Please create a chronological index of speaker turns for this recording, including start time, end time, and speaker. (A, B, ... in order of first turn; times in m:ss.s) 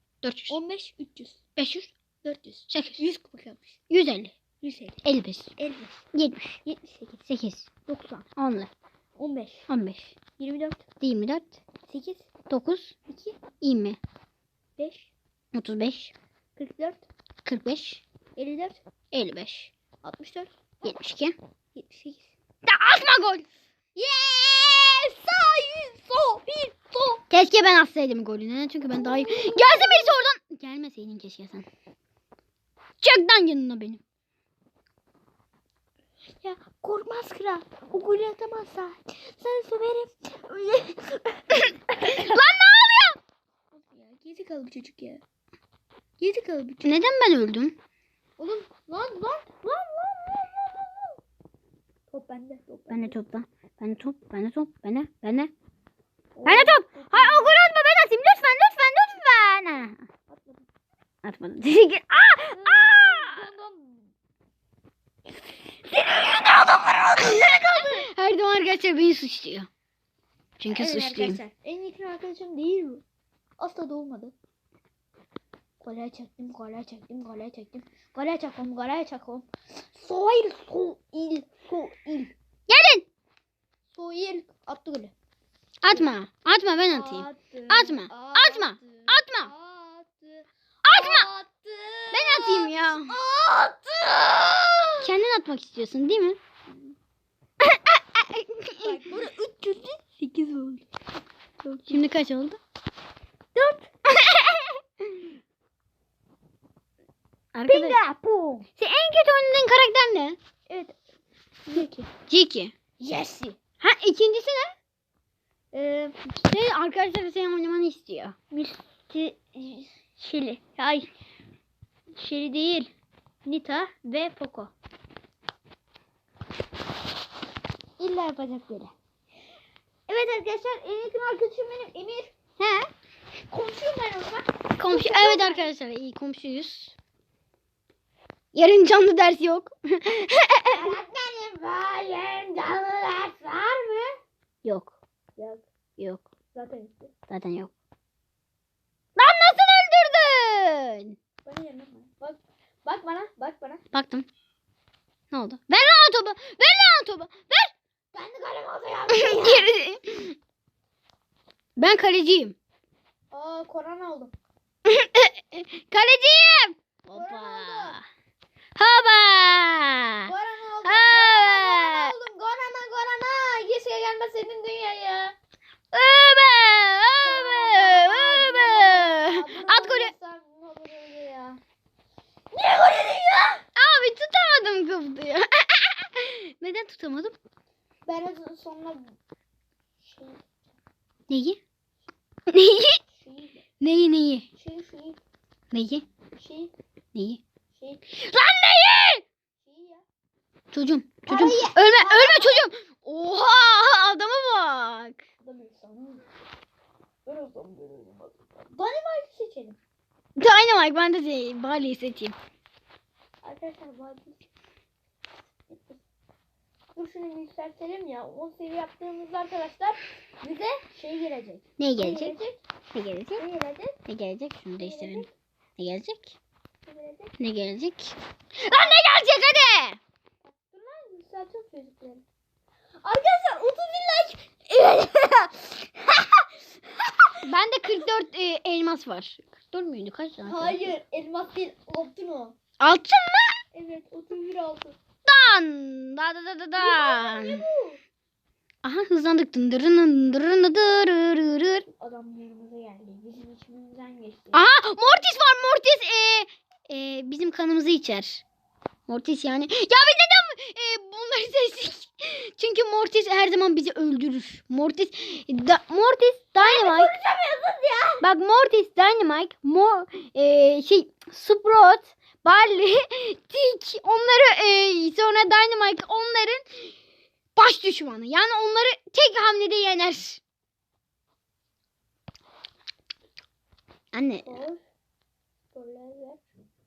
0:00.2-0:00.6 A
0:00.5-0:01.4 B
0:01.6-0:01.9 A
0:02.2-0:03.8 B
0:02.7-0:03.0 A
0:03.9-0:04.4 A
0:04.6-0:05.0 B
0:05.0-0:05.5 A
0:05.6-0:06.0 B
0:06.1-0:06.6 A
0:06.6-0:07.2 B
0:07.3-0:07.7 A
0:07.9-0:08.2 B
0:08.4-0:08.7 A
0:09.2-0:09.7 B
0:09.7-0:10.1 A
0:10.4-0:10.8 B
0:11.0-0:11.6 A
0:11.9-0:12.3 B
0:12.5-0:13.0 A
0:13.1-0:13.4 B
0:13.6-0:14.0 A
0:14.8-0:15.1 B
0:15.5-0:16.1 A
0:16.6-0:17.1 B
0:17.4-0:18.0 A
0:18.4-0:18.8 B
0:19.1-0:19.7 A
0:20.0-0:20.5 B
0:20.8-0:21.4 A
0:21.7-0:22.3 B
0:22.6-0:23.4 A
0:23.9-0:27.2 B
0:27.3-0:31.6 A
0:28.9-0:30.2 B
0:33.0-0:34.0 A
0:36.4-0:42.4 B
0:41.5-0:43.2 A
0:43.7-0:45.2 B
0:46.2-0:47.0 B
0:46.8-0:47.8 A
0:48.4-0:51.2 B
0:52.1-0:53.2 B
0:52.9-0:55.5 A
0:56.4-0:57.6 B
0:56.4-1:00.0 A
1:00.3-1:00.6 B
1:01.2-1:03.4 A
1:02.5-1:04.1 B
1:06.0-1:08.0 B
1:07.2-1:09.7 A
1:10.6-1:11.4 A
1:10.7-1:13.0 B
1:13.6-1:14.3 B
1:15.8-1:22.3 B
1:22.7-1:23.1 A
1:23.9-1:25.1 B
1:25.8-1:29.5 A
1:26.9-1:35.1 B
1:30.8-1:31.3 A
1:32.1-1:33.1 A
1:35.0-1:36.4 A
1:36.7-1:36.9 B
1:37.6-1:39.0 A
1:38.8-1:40.8 B
1:41.6-1:42.0 B
1:41.9-1:42.6 A
1:43.5-1:43.9 B
1:44.1-1:44.8 A
1:47.5-1:48.0 A
1:47.7-1:48.7 B
1:48.8-1:50.4 A
1:50.7-1:51.0 B
1:51.6-1:52.1 B
1:51.8-1:52.7 A
1:53.0-1:53.6 B
1:53.8-1:54.7 A
1:55.7-1:56.2 B
1:56.3-1:58.4 A
1:58.5-2:01.1 B
2:02.1-2:02.9 B
2:03.4-2:04.7 B
2:08.0-2:08.9 B
2:10.1-2:12.3 B
2:12.6-2:12.9 A
2:13.5-2:15.7 B
2:14.8-2:16.9 A
2:18.5-2:20.9 A
2:20.7-2:24.2 B
2:24.6-2:25.0 A
2:25.4-2:25.6 B
2:26.0-2:26.2 A
2:26.5-2:27.1 B
2:27.3-2:27.7 A
2:29.2-2:31.2 A
2:31.4-2:33.8 B
2:33.9-2:34.3 A
2:35.3-2:37.7 A
2:38.1-2:39.7 B
2:39.1-2:40.4 A
2:41.8-2:42.6 A
2:43.3-2:44.3 B
2:44.8-2:48.0 A
2:47.1-2:48.0 B
2:48.8-2:50.3 A
2:50.2-2:55.3 B
2:50.8-2:52.1 A
2:55.9-3:00.1 A
2:57.2-3:01.6 B
3:02.5-3:03.6 B
3:03.8-3:07.4 A
3:08.0-3:09.2 B
3:10.0-3:10.6 B
3:11.3-3:11.6 A
3:12.5-3:13.0 A
3:13.1-3:13.6 B
3:13.8-3:14.5 A
3:14.5-3:15.2 B
3:15.7-3:16.0 A
3:16.4-3:16.7 B
3:17.1-3:17.4 A
3:17.7-3:18.0 B
3:18.1-3:19.2 A
3:19.6-3:20.0 B
3:20.7-3:25.2 A
3:21.3-3:22.7 B
3:25.4-3:26.2 B
3:27.2-3:29.8 B
3:30.4-3:32.4 A
3:33.4-3:34.5 B
3:35.7-3:36.0 B
3:36.9-3:42.6 B
3:41.8-3:42.4 A
3:42.9-3:43.4 A
3:43.4-3:44.0 B
3:44.0-3:45.2 A
3:44.8-3:45.3 B
3:45.8-3:46.4 A
3:46.8-3:47.3 B
3:47.4-3:50.0 A
3:50.4-3:52.2 B
3:53.0-3:56.5 B
3:57.4-4:00.8 A
4:00.4-4:02.5 B
4:02.8-4:03.6 A
4:03.7-4:05.0 B
4:05.2-4:07.6 A
4:06.8-4:08.0 B
4:08.8-4:11.8 A
4:11.9-4:14.6 B
4:14.5-4:18.4 A
4:19.1-4:27.1 A
4:26.6-4:28.2 B
4:28.2-4:37.0 A
4:37.6-4:40.4 A
4:44.1-4:44.6 A
4:44.4-4:44.8 B
4:45.7-4:46.5 B